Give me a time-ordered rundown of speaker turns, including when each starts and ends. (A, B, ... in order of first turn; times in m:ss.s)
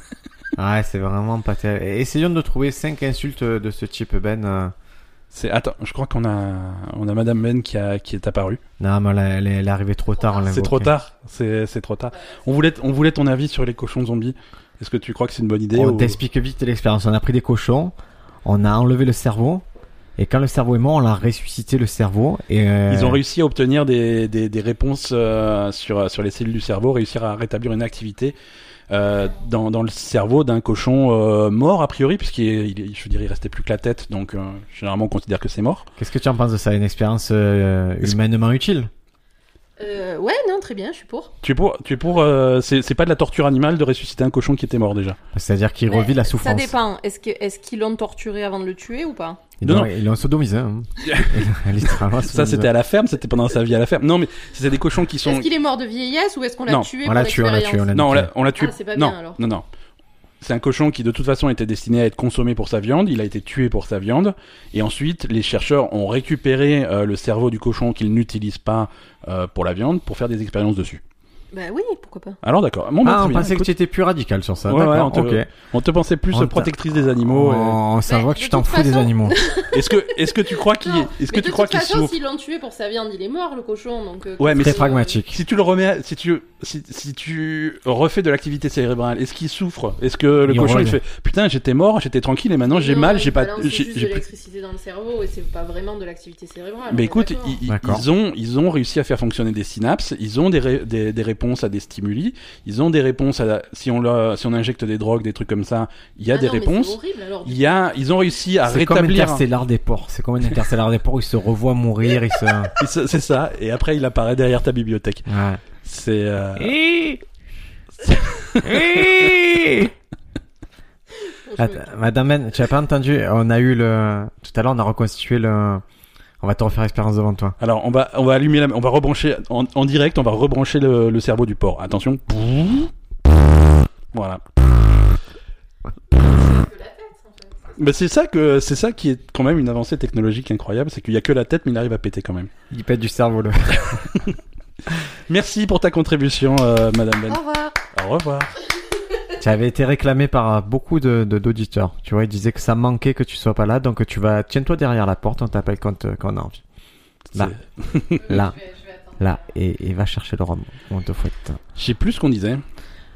0:00.6-0:04.7 A
0:05.3-0:08.6 B
0:08.8-0:10.9 A
0:10.4-0:16.2 B
0:15.7-0:19.6 A
0:20.2-0:23.2 A
0:22.9-0:28.3 B
0:28.9-0:35.9 B
0:36.0-0:38.9 A
0:39.8-0:41.3 C
0:41.4-0:45.2 B
0:45.3-0:46.8 A
0:45.9-0:49.5 C
0:49.6-0:52.7 A
0:49.6-0:49.9 B
0:51.0-0:55.5 B
0:55.2-0:57.9 C
0:57.0-0:58.3 A
0:57.9-0:59.6 B
0:58.6-0:59.4 C
1:00.4-1:11.0 B
1:11.5-1:12.4 C
1:12.4-1:13.7 B
1:13.0-1:15.5 A
1:14.7-1:17.8 B
1:16.3-1:19.4 A
1:18.1-1:25.2 C
1:19.7-1:22.1 B
1:24.4-1:34.2 B
1:24.5-1:25.4 A
1:30.4-1:31.0 A
1:32.7-1:37.6 C
1:36.9-1:49.4 B
1:37.7-1:38.0 A
1:46.3-1:47.8 C
1:48.6-1:52.7 A
1:52.8-1:55.3 B
1:55.3-1:55.6 A
1:55.8-1:56.8 B
1:56.6-1:57.2 A
1:58.0-1:59.4 B
1:58.6-1:59.9 A
2:01.2-2:01.9 C
2:01.6-2:05.8 A
2:06.4-2:07.6 A
2:07.6-2:12.9 B
2:14.1-2:14.4 B
2:16.1-2:17.7 C
2:17.8-2:22.5 B
2:22.7-2:24.1 A
2:23.7-2:24.3 B
2:25.3-2:28.6 B
2:27.3-2:27.8 C
2:29.4-2:36.6 A
2:37.3-2:38.2 B
2:38.2-2:39.2 C
2:38.2-2:38.6 A
2:39.2-2:41.6 A
2:41.8-2:42.6 B